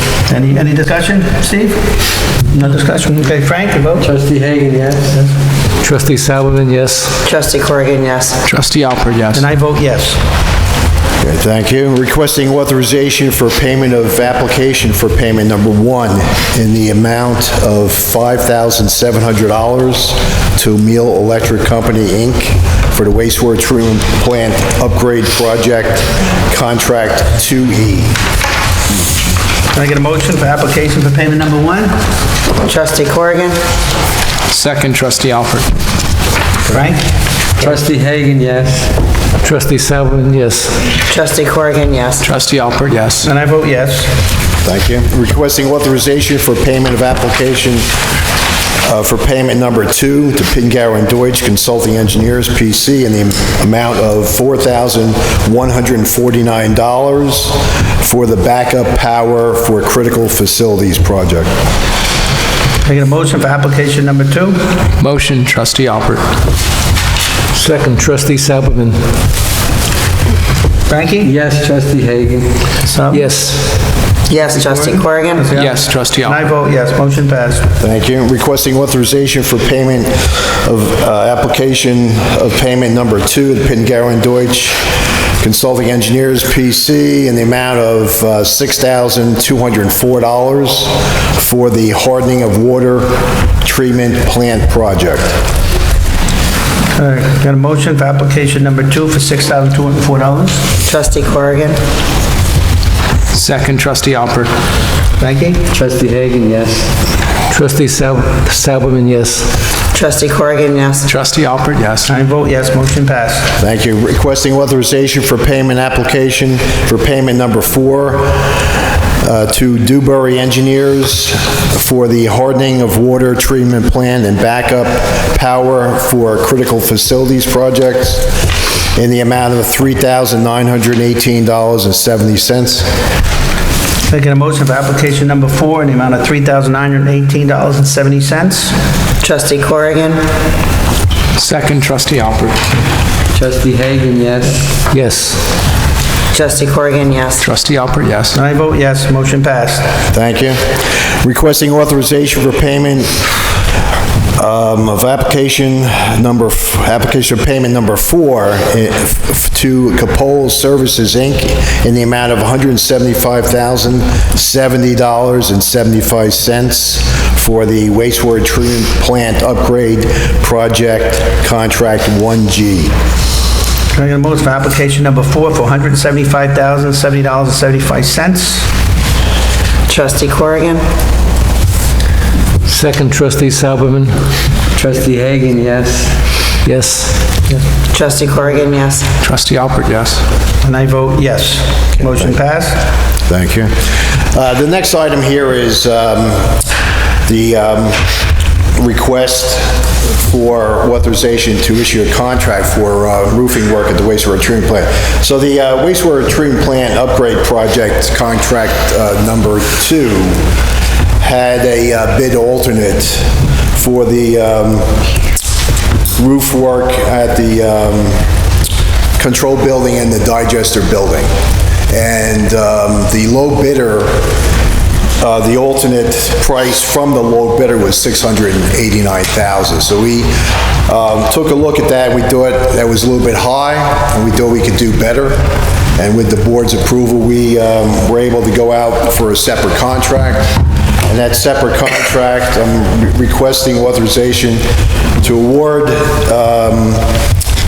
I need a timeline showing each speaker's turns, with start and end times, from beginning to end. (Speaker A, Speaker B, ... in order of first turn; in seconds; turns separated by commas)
Speaker A: 0.3-2.0, Speaker A: 2.5-4.0, Speaker B: 4.0-5.2, Speaker C: 5.8-7.2, Speaker D: 7.2-8.4, Speaker E: 8.4-9.5, Speaker A: 9.3-10.2, Speaker F: 11.2-28.1, Speaker A: 29.7-31.9, Speaker D: 32.6-33.6, Speaker E: 34.5-35.7, Speaker A: 36.6-37.1, Speaker B: 37.6-38.9, Speaker C: 39.4-40.9, Speaker D: 41.1-42.2, Speaker E: 42.2-43.3, Speaker A: 43.2-44.1, Speaker F: 44.6-47.9, Speaker F: 48.8-61.5, Speaker A: 62.8-64.6, Speaker E: 65.0-66.2, Speaker C: 67.5-69.0, Speaker A: 70.9-71.3, Speaker B: 71.2-72.5, Speaker A: 72.9-73.2, Speaker C: 73.1-73.8, Speaker D: 74.3-75.5, Speaker A: 74.5-77.7, Speaker E: 75.5-76.5, Speaker F: 77.8-84.8, Speaker F: 85.4-95.4, Speaker A: 96.9-100.7, Speaker D: 100.8-101.8, Speaker E: 103.3-104.5, Speaker A: 105.2-105.6, Speaker B: 105.7-106.8, Speaker C: 107.5-109.6, Speaker D: 109.9-111.1, Speaker E: 111.1-112.2, Speaker A: 112.1-113.5, Speaker F: 113.6-118.7, Speaker F: 119.2-128.4, Speaker F: 128.9-132.9, Speaker A: 134.1-138.7, Speaker D: 139.2-140.2, Speaker E: 141.3-142.6, Speaker B: 143.3-144.6, Speaker C: 144.9-145.5, Speaker D: 146.3-147.4, Speaker E: 147.4-148.4, Speaker A: 148.3-149.9, Speaker F: 150.1-153.3, Speaker F: 154.3-172.9, Speaker A: 173.9-178.7, Speaker D: 179.9-180.8, Speaker C: 182.6-184.2, Speaker B: 184.8-186.1, Speaker C: 186.6-187.2, Speaker D: 187.9-189.1, Speaker E: 189.2-190.2, Speaker A: 190.6-192.8, Speaker F: 193.3-196.6, Speaker F: 197.2-198.1, Speaker F: 198.8-210.4, Speaker F: 211.2-215.1, Speaker F: 216.2-218.3, Speaker F: 219.2-221.3, Speaker F: 221.9-224.2, Speaker F: 225.2-235.4, Speaker F: 235.9-244.6, Speaker F: 245.2-247.1